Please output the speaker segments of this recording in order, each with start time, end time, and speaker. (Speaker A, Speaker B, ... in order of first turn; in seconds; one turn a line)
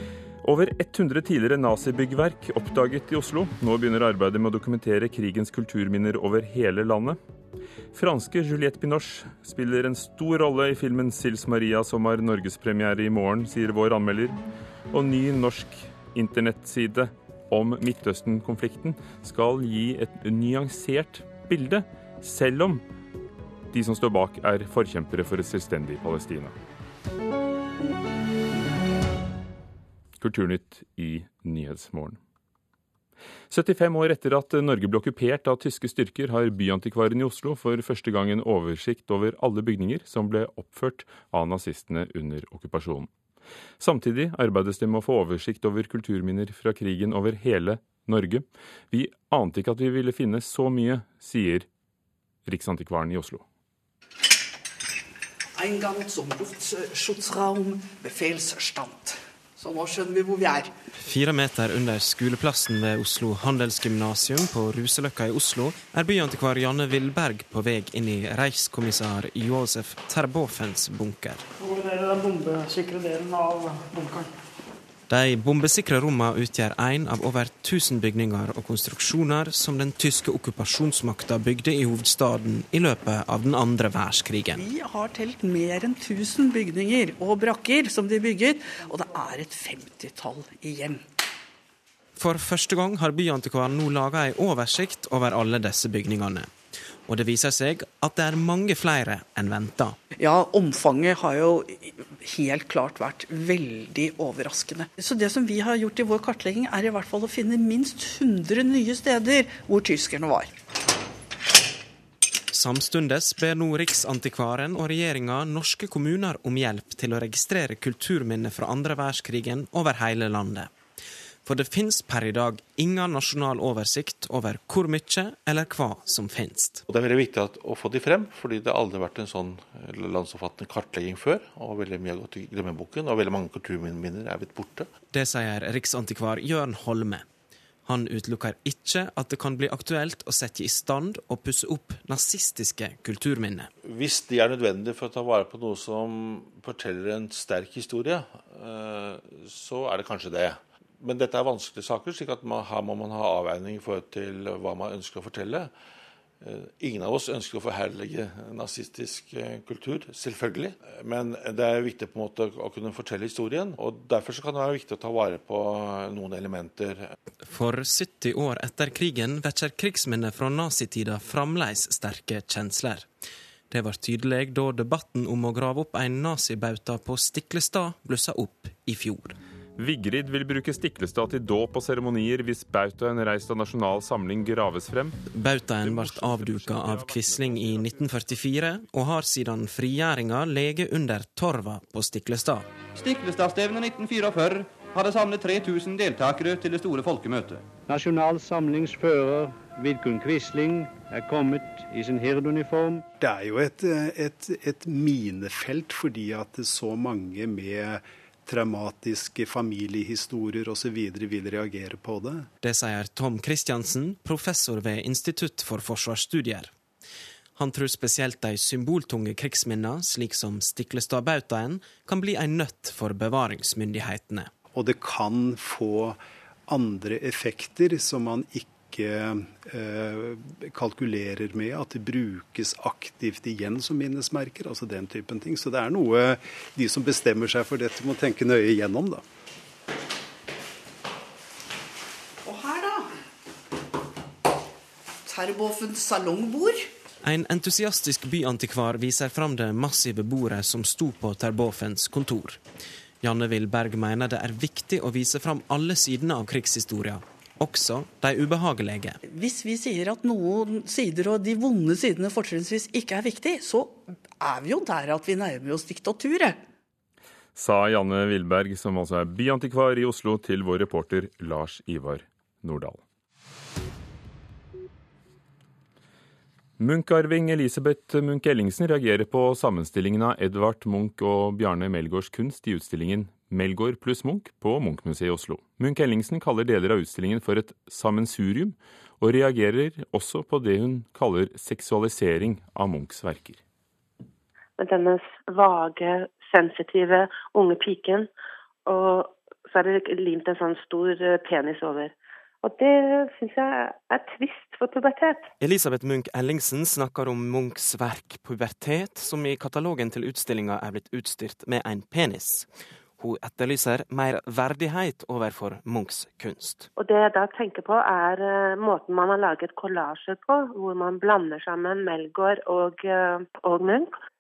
Speaker A: 0.4-7.2
Speaker A: 7.9-14.4
Speaker A: 14.9-22.8
Speaker A: 23.7-26.5
Speaker A: 30.2-32.2
Speaker A: 33.5-43.1
Speaker A: 43.8-51.7
Speaker A: 52.5-53.4
Speaker B: 55.6-60.7
Speaker C: 61.0-71.4
Speaker C: 75.1-84.6
Speaker B: 84.5-91.0
Speaker C: 92.2-96.5
Speaker C: 97.1-100.0
Speaker B: 100.2-110.5
Speaker C: 112.5-120.7
Speaker C: 121.4-126.8
Speaker D: 126.9-134.9
Speaker C: 135.1-137.2
Speaker C: 137.8-143.7
Speaker D: 143.8-155.7
Speaker D: 156.4-167.1
Speaker C: 167.4-173.1
Speaker C: 173.7-179.4
Speaker A: 179.8-185.2
Speaker C: 185.3-192.7
Speaker D: 185.8-187.8
Speaker E: 193.0-197.4
Speaker F: 197.9-202.9
Speaker G: 203.2-212.5
Speaker C: 212.6-216.7
Speaker C: 217.6-224.5
Speaker G: 224.7-239.2
Speaker B: 242.4-243.1
Speaker B: 245.2-246.9
Speaker C: 247.2-252.6
Speaker C: 253.2-259.2
Speaker B: 259.2-266.6
Speaker A: 267.5-273.0
Speaker A: 276.8-293.6
Speaker H: 294.8-298.3
Speaker H: 298.9-305.5
Speaker C: 305.6-312.7
Speaker C: 313.2-316.9
Speaker H: 316.9-324.1